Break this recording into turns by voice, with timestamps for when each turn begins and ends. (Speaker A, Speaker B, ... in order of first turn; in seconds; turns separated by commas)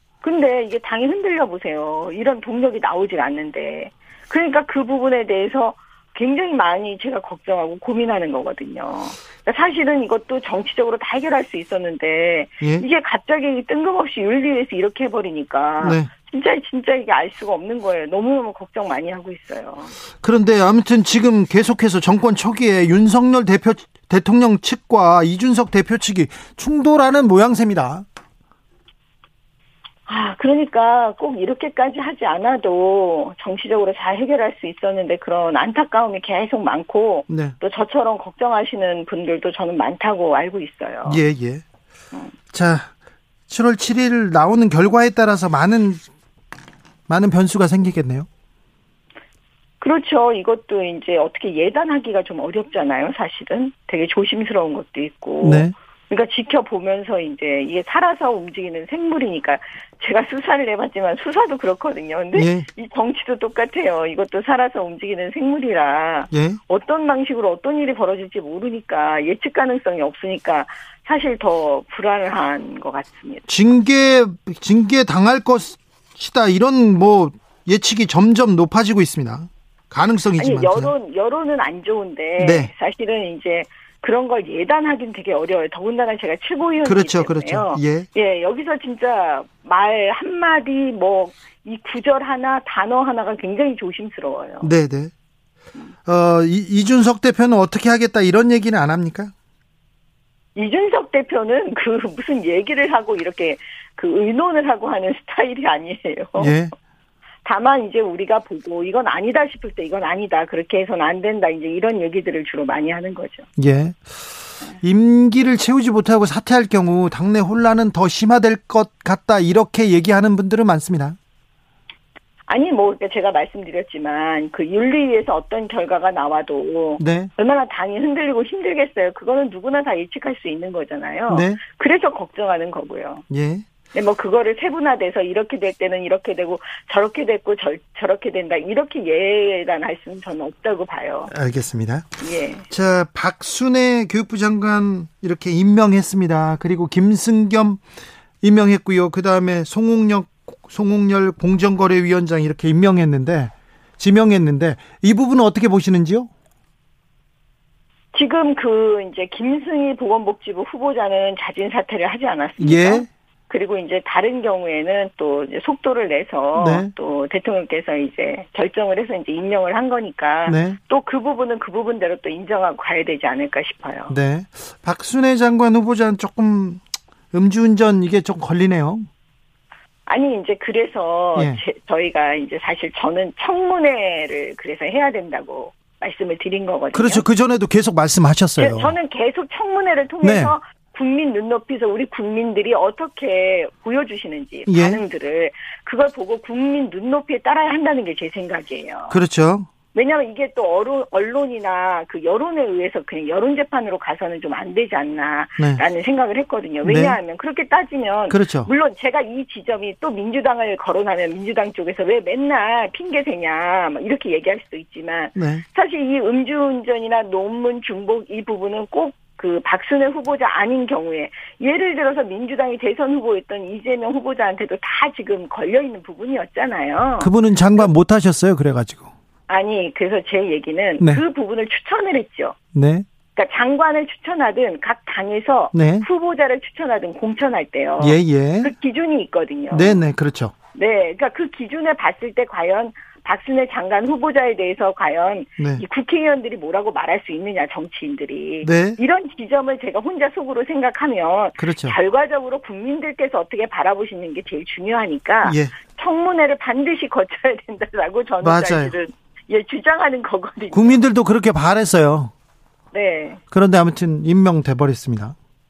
Speaker A: 0.2-19.9, Speaker B: 15.8-16.1, Speaker B: 20.2-28.1, Speaker A: 30.1-41.2, Speaker B: 37.3-37.5, Speaker B: 41.0-41.6, Speaker B: 42.5-42.9, Speaker B: 43.5-46.0, Speaker B: 47.1-48.3, Speaker A: 49.8-73.5, Speaker B: 55.4-55.7, Speaker B: 62.3-62.7, Speaker B: 66.3-66.6, Speaker B: 73.5-80.9, Speaker A: 80.4-94.7, Speaker B: 82.4-82.7, Speaker B: 86.8-88.1, Speaker B: 94.6-95.1, Speaker B: 96.0-99.3, Speaker A: 100.5-106.5, Speaker B: 106.4-106.7, Speaker A: 107.4-113.5, Speaker B: 113.6-114.0, Speaker B: 114.8-121.2, Speaker A: 122.5-133.2, Speaker B: 127.0-127.3, Speaker B: 131.3-131.6, Speaker B: 133.3-133.7, Speaker A: 133.9-141.3, Speaker B: 141.3-142.2, Speaker A: 142.2-142.7, Speaker B: 142.7-147.8, Speaker B: 148.4-156.3, Speaker A: 158.1-174.1, Speaker B: 162.6-163.1, Speaker B: 166.5-166.9, Speaker B: 170.4-170.8, Speaker B: 174.1-179.1, Speaker A: 180.1-187.2, Speaker B: 181.3-181.6, Speaker B: 186.9-188.9, Speaker A: 188.6-199.2, Speaker B: 190.2-190.5, Speaker B: 194.7-195.0, Speaker B: 199.1-199.7, Speaker A: 199.9-227.9, Speaker B: 206.8-207.2, Speaker B: 208.3-208.7, Speaker B: 215.3-215.6, Speaker B: 227.2-229.1, Speaker A: 229.5-232.6, Speaker B: 232.7-233.1, Speaker A: 233.3-240.0, Speaker B: 235.7-236.0, Speaker B: 238.0-238.7, Speaker B: 239.7-240.5, Speaker A: 240.7-261.0, Speaker B: 245.6-245.8, Speaker B: 248.6-249.0, Speaker B: 251.6-252.0, Speaker B: 255.4-255.7, Speaker B: 258.4-258.9, Speaker B: 260.7-262.3, Speaker A: 262.9-263.4, Speaker B: 263.5-265.3